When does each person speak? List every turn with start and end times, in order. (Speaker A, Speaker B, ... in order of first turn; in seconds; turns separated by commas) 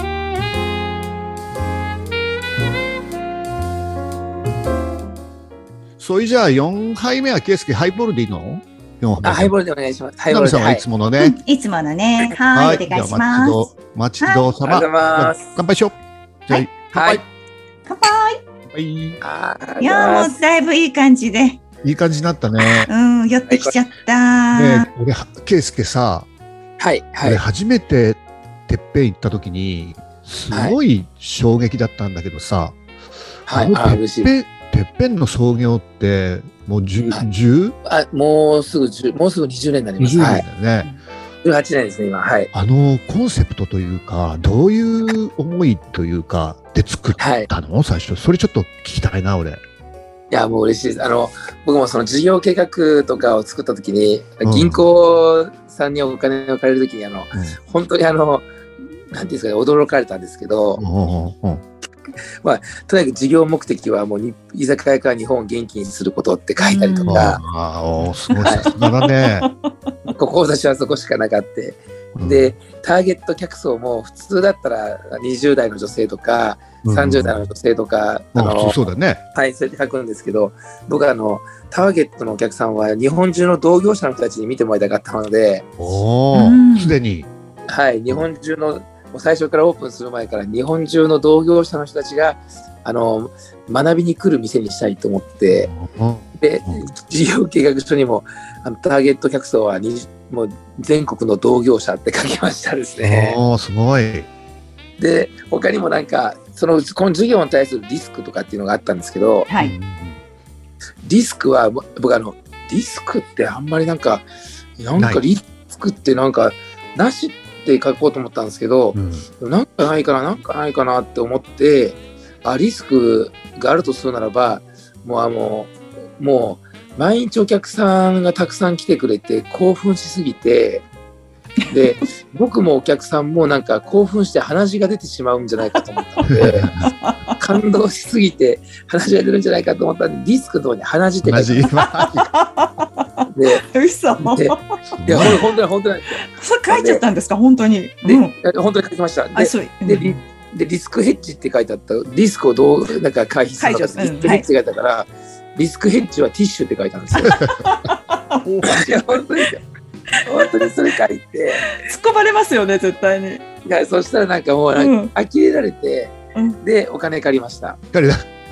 Speaker A: 6.0-9.5, Speaker B: 9.2-10.8, Speaker A: 10.3-11.4, Speaker C: 11.2-14.5, Speaker A: 12.5-15.9, Speaker B: 14.6-15.5, Speaker A: 16.5-17.2, Speaker B: 16.9-17.2, Speaker C: 17.9-18.4, Speaker A: 18.7-19.2, Speaker B: 19.2-20.3, Speaker C: 19.8-21.6, Speaker A: 21.8-22.9, Speaker C: 22.6-24.9, Speaker B: 23.5-23.7, Speaker A: 24.5-26.3, Speaker B: 26.8-27.4, Speaker A: 27.2-32.8, Speaker B: 30.5-30.8, Speaker B: 33.5-34.3, Speaker A: 33.5-37.7, Speaker B: 37.8-40.4, Speaker A: 40.0-40.9, Speaker B: 41.4-42.5, Speaker A: 42.5-49.6, Speaker B: 47.2-47.5, Speaker B: 50.3-58.5, Speaker A: 54.4-54.8, Speaker B: 59.1-60.8, Speaker A: 60.8-61.6, Speaker B: 62.4-67.4, Speaker C: 66.6-67.4, Speaker A: 67.1-69.5, Speaker C: 68.0-69.7, Speaker B: 68.4-68.7, Speaker B: 70.0-78.8, Speaker A: 72.1-72.5, Speaker A: 76.8-77.5, Speaker A: 78.3-79.2, Speaker B: 79.3-85.7, Speaker A: 85.8-87.3, Speaker C: 86.3-87.0, Speaker B: 87.7-95.7, Speaker A: 95.5-96.8, Speaker B: 96.4-103.4, Speaker A: 103.0-104.3, Speaker B: 105.0-109.5, Speaker C: 109.5-109.7, Speaker A: 109.6-110.2, Speaker B: 111.0-114.2, Speaker B: 114.8-130.8, Speaker A: 115.0-115.2, Speaker A: 118.9-119.2, Speaker C: 131.6-131.9, Speaker B: 131.7-136.7, Speaker C: 135.7-137.4, Speaker A: 136.3-136.9, Speaker B: 137.4-141.7, Speaker A: 141.2-142.2, Speaker C: 141.8-143.0, Speaker B: 143.3-143.6, Speaker C: 143.6-144.6, Speaker B: 144.2-147.0, Speaker A: 145.0-145.4, Speaker C: 146.1-148.3, Speaker B: 148.1-157.5, Speaker C: 149.3-150.2, Speaker C: 153.6-154.4, Speaker C: 157.3-158.8, Speaker B: 158.6-159.6, Speaker B: 160.2-161.7, Speaker C: 161.8-163.4, Speaker B: 163.6-167.8, Speaker C: 164.7-165.1, Speaker A: 167.9-168.3